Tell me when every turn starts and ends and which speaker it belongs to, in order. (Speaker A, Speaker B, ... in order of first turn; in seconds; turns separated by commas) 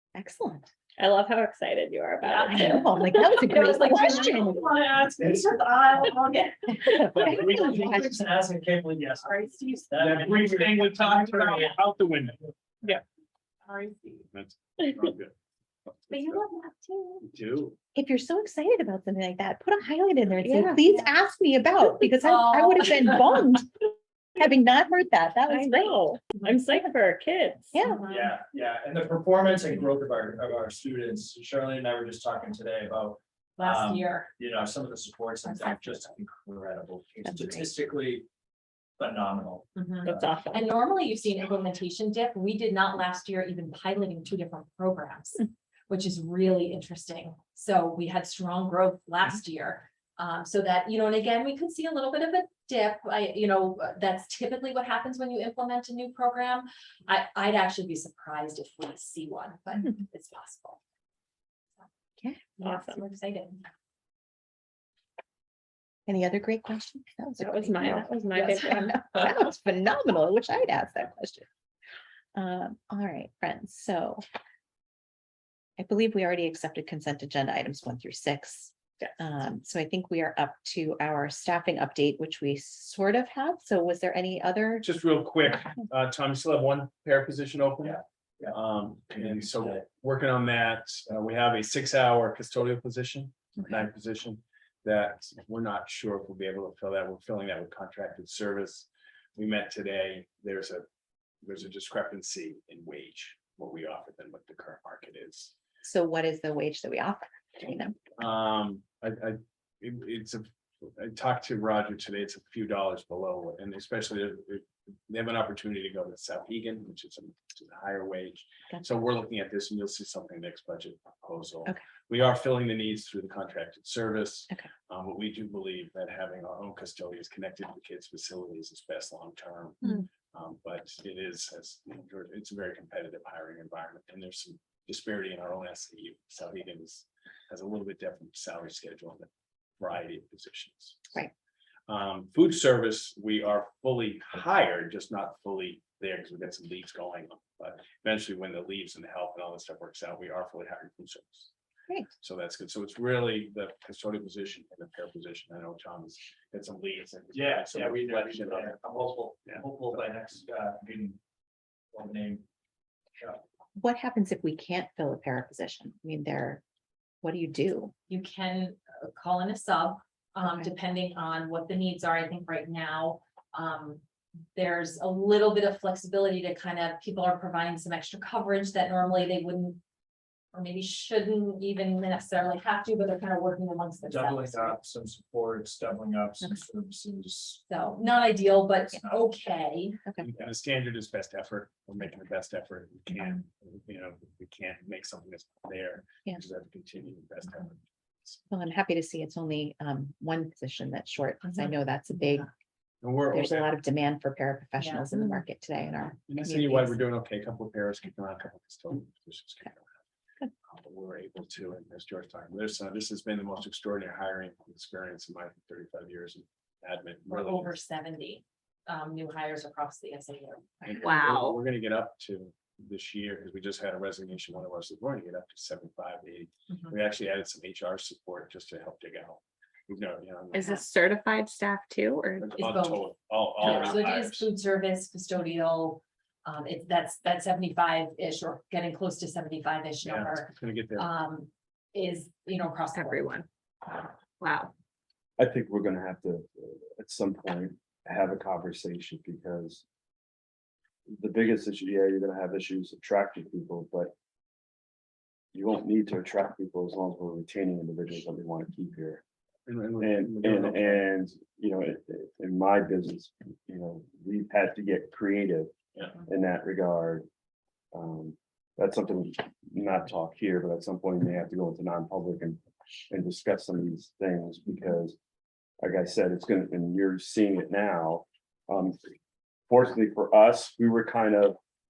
Speaker A: 0.1-0.7, Speaker B: 1.0-3.2, Speaker C: 2.2-7.0, Speaker A: 2.5-4.6, Speaker A: 6.9-8.0, Speaker D: 7.1-7.8, Speaker E: 7.2-11.8, Speaker C: 9.2-10.5, Speaker D: 10.0-12.4, Speaker C: 13.6-14.3, Speaker D: 14.3-15.3, Speaker D: 15.9-16.4, Speaker C: 16.1-17.3, Speaker D: 17.2-17.8, Speaker A: 17.9-26.0, Speaker B: 20.4-20.8, Speaker C: 22.2-23.1, Speaker B: 25.5-27.7, Speaker A: 27.7-28.0, Speaker C: 27.8-28.3, Speaker E: 28.1-38.3, Speaker C: 33.6-34.3, Speaker E: 39.0-40.3, Speaker C: 39.7-60.8, Speaker B: 40.0-40.6, Speaker A: 62.2-62.5, Speaker C: 62.6-63.6, Speaker B: 62.6-63.0, Speaker A: 66.1-71.5, Speaker B: 67.4-68.9, Speaker C: 68.3-68.7, Speaker A: 72.3-74.2, Speaker A: 75.8-84.9, Speaker D: 84.8-100.8, Speaker E: 87.8-88.6, Speaker E: 89.1-89.8, Speaker D: 101.4-105.5, Speaker A: 105.8-108.0, Speaker D: 108.2-139.3, Speaker D: 139.8-141.2, Speaker D: 141.9-151.5, Speaker D: 152.2-158.8, Speaker E: 157.3-161.2, Speaker E: 161.9-162.4, Speaker A: 163.8-166.6, Speaker A: 167.2-167.9, Speaker C: 168.1-174.0, Speaker A: 170.4-170.7, Speaker C: 174.5-179.8, Speaker C: 180.5-184.8, Speaker E: 184.0-187.6, Speaker C: 187.7-190.0, Speaker E: 188.9-189.4, Speaker D: 190.2-198.4, Speaker A: 198.5-202.5, Speaker D: 203.0-203.7, Speaker A: 203.3-207.0, Speaker C: 204.8-205.1, Speaker D: 206.3-209.9, Speaker D: 210.6-217.8, Speaker C: 217.3-220.7, Speaker D: 220.8-230.8, Speaker B: 220.9-221.6, Speaker B: 230.5-232.7, Speaker D: 232.4-234.5, Speaker C: 232.6-243.3, Speaker D: 240.0-241.1, Speaker B: 242.9-243.5, Speaker B: 244.4-244.7, Speaker F: 245.4-249.8, Speaker F: 251.1-254.1, Speaker F: 255.5-259.2, Speaker D: 259.6-261.1, Speaker F: 260.0-265.7, Speaker F: 266.2-267.2, Speaker F: 267.9-275.2, Speaker F: 275.8-279.0, Speaker F: 279.7-281.6